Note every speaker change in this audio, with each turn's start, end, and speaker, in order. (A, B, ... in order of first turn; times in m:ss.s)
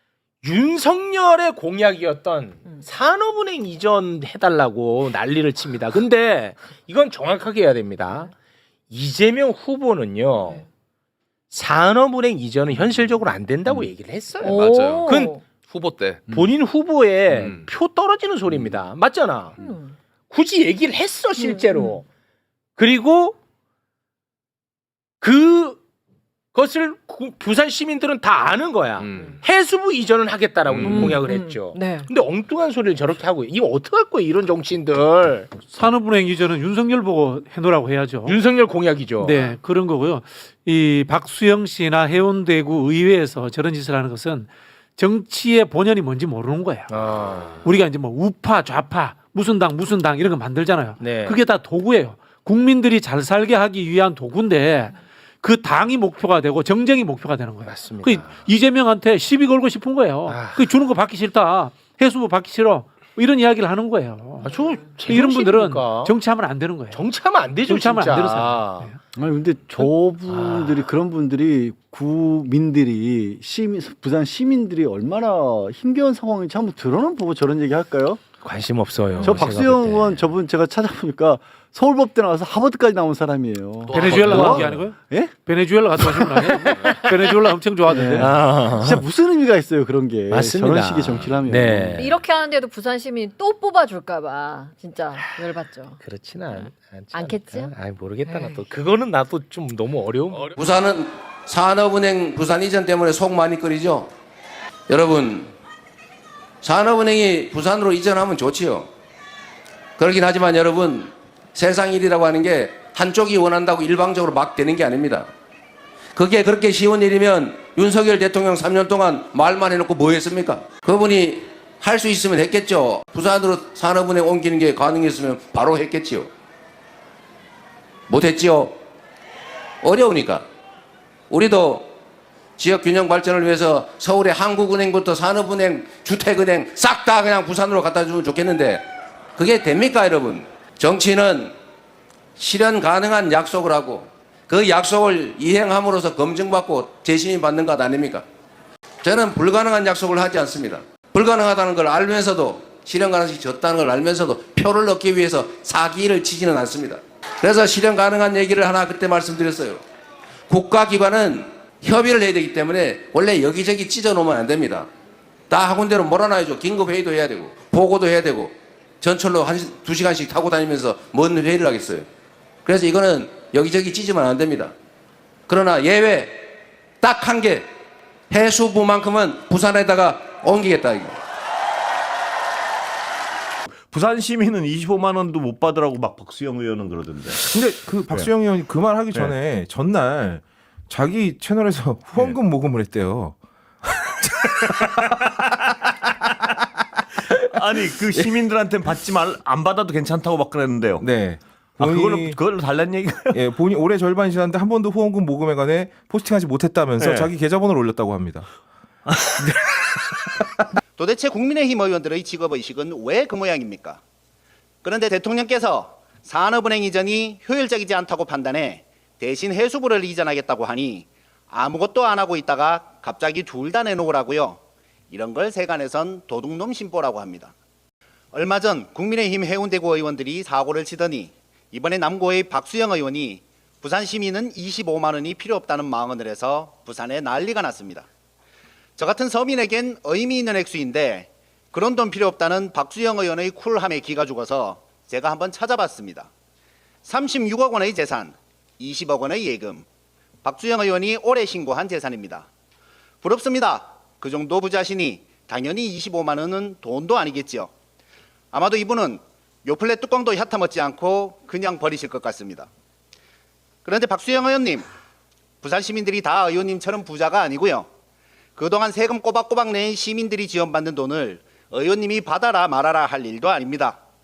0:00.4-0:08.3 A
0:08.9-0:10.6 A
0:11.5-0:15.4 A
0:14.5-0:15.4 B
0:14.5-0:16.4 C
0:16.3-0:19.6 A
0:17.3-0:17.7 C
0:19.6-0:19.9 B
0:20.3-0:22.0 A
0:21.5-0:21.9 B
0:22.8-0:23.4 A
0:25.2-0:25.8 A
0:26.6-0:35.5 A
0:29.0-0:29.4 C
0:30.7-0:31.2 C
0:30.9-0:32.0 B
0:35.7-0:38.4 D
0:38.3-0:39.6 A
0:39.2-0:47.1 D
0:46.9-0:47.6 A
0:47.6-1:07.1 D
0:51.0-0:51.4 A
0:57.7-0:58.4 A
1:00.3-1:00.7 A
1:04.4-1:06.2 A
1:06.9-1:08.9 A
1:07.6-1:09.0 D
1:09.1-1:18.3 E
1:10.3-1:10.9 A
1:18.4-1:20.3 A
1:19.2-1:25.3 E
1:23.9-1:24.8 C
1:23.9-1:28.4 D
1:26.4-1:27.3 A
1:27.9-1:29.1 A
1:27.9-1:28.2 E
1:28.8-1:32.1 E
1:30.3-1:32.1 A
1:31.1-1:31.4 C
1:32.0-1:36.0 B
1:35.1-1:40.5 A
1:36.5-1:37.7 B
1:38.3-1:38.6 B
1:40.6-1:44.1 F
1:44.9-1:45.5 F
1:46.6-1:48.9 F
1:50.0-1:55.3 F
1:56.2-2:06.3 F
2:08.1-2:08.7 F
2:09.8-2:10.4 F
2:11.3-2:11.9 F
2:12.6-2:18.8 F
2:19.4-2:21.5 F
2:22.4-2:28.2 F
2:29.0-2:39.8 F
2:40.5-2:44.9 F
2:45.5-2:52.1 F
2:52.6-2:54.7 F
2:55.5-2:56.4 F
2:57.0-2:57.6 F
2:58.3-3:01.2 F
3:03.9-3:08.3 G
3:07.5-3:13.4 H
3:17.5-3:21.1 G
3:21.0-3:22.4 H
3:21.8-3:23.4 G
3:23.3-3:28.5 H
3:27.0-3:27.3 G
3:29.1-3:29.4 G
3:31.0-3:34.0 I
3:34.8-3:44.6 I
3:45.1-3:47.5 I
3:48.3-3:58.1 I
3:59.0-4:06.3 I
4:07.0-4:09.8 I
4:10.4-4:12.5 I
4:13.2-4:17.7 I
4:18.5-4:22.7 I
4:23.8-4:24.9 I
4:25.6-4:27.9 I
4:28.6-4:34.0 I